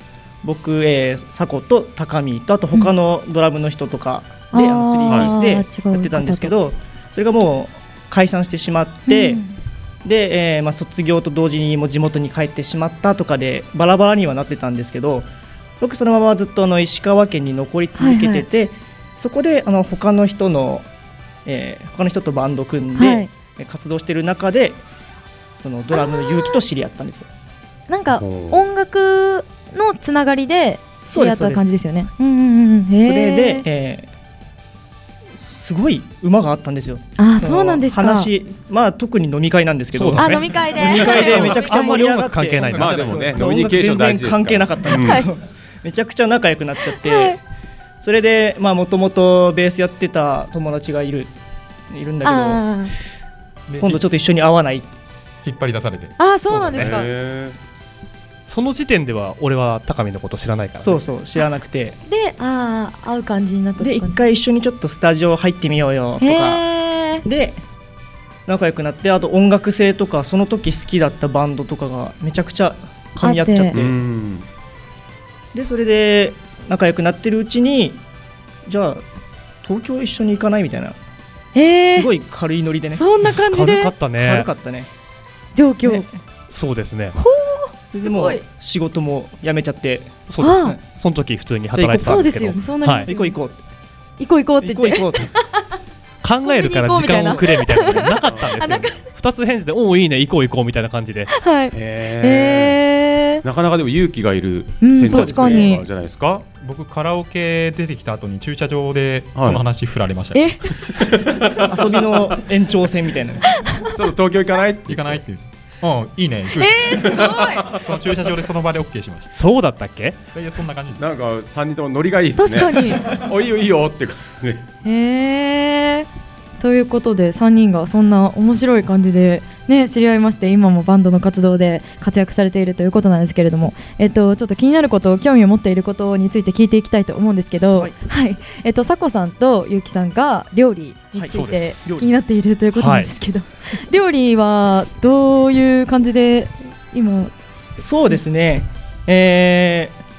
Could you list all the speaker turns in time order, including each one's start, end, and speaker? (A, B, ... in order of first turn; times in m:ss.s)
0:00.4-0:09.4 A
0:04.5-0:06.5 B
0:05.0-0:05.3 C
0:09.1-0:09.5 B
0:10.0-0:15.3 A
0:15.8-0:20.8 A
0:18.0-0:18.4 B
0:21.4-0:24.8 A
0:23.0-0:23.3 B
0:25.6-0:27.3 A
0:26.0-0:26.5 B
0:27.9-0:33.6 B
0:28.1-0:28.6 C
0:31.1-0:31.7 A
0:33.0-0:34.1 A
0:35.4-0:47.4 A
0:37.2-0:38.3 B
0:39.9-0:43.3 D
0:40.2-0:41.9 B
0:42.6-0:43.6 E
0:42.7-0:45.2 C
0:44.9-0:45.2 B
0:46.9-0:47.4 B
0:48.0-0:51.3 A
0:51.9-0:52.7 A
0:52.2-0:52.9 B
0:53.7-0:54.0 E
0:53.8-0:54.9 A
0:55.4-0:56.2 E
0:56.2-0:57.1 B
0:56.7-0:57.0 E
0:56.7-0:57.6 C
0:58.5-1:01.0 D
1:00.8-1:02.0 A
1:02.1-1:04.2 B
1:03.8-1:06.6 A
1:06.2-1:07.2 B
1:07.2-1:07.6 A
1:08.5-1:13.9 A
1:13.2-1:13.8 B
1:13.7-1:14.4 C
1:15.5-1:18.0 A
1:18.6-1:19.0 A
1:19.6-1:21.0 A
1:21.5-1:22.1 B
1:21.9-1:23.0 A
1:22.9-1:23.9 B
1:23.2-1:24.5 D
1:24.2-1:24.9 A
1:25.5-1:26.0 B
1:26.5-1:27.1 D
1:27.1-1:28.4 B
1:27.9-1:30.8 A
1:30.3-1:33.1 D
1:30.4-1:30.7 B
1:31.7-1:32.3 A
1:32.0-1:33.4 B
1:33.0-1:33.6 A
1:34.2-1:35.6 B
1:34.6-1:35.3 A
1:36.2-1:41.3 D
1:36.4-1:39.0 B
1:38.2-1:38.5 C
1:41.3-1:43.4 B
1:41.7-1:42.8 C
1:43.4-1:46.4 C
1:44.8-1:45.8 B
1:45.1-1:45.7 A
1:46.5-1:50.5 E
1:49.3-1:49.6 C
1:50.3-1:50.7 B
1:51.7-1:53.4 A
1:53.9-1:55.2 C
1:54.9-1:59.3 E
1:56.6-1:57.6 B
1:59.3-2:00.2 D
2:00.3-2:01.0 E
2:01.0-2:04.6 C
2:02.4-2:03.0 B
2:04.8-2:06.1 B
2:06.6-2:27.3 B
2:21.1-2:22.1 A
2:21.3-2:21.9 D
2:22.8-2:23.1 D
2:27.8-2:30.0 A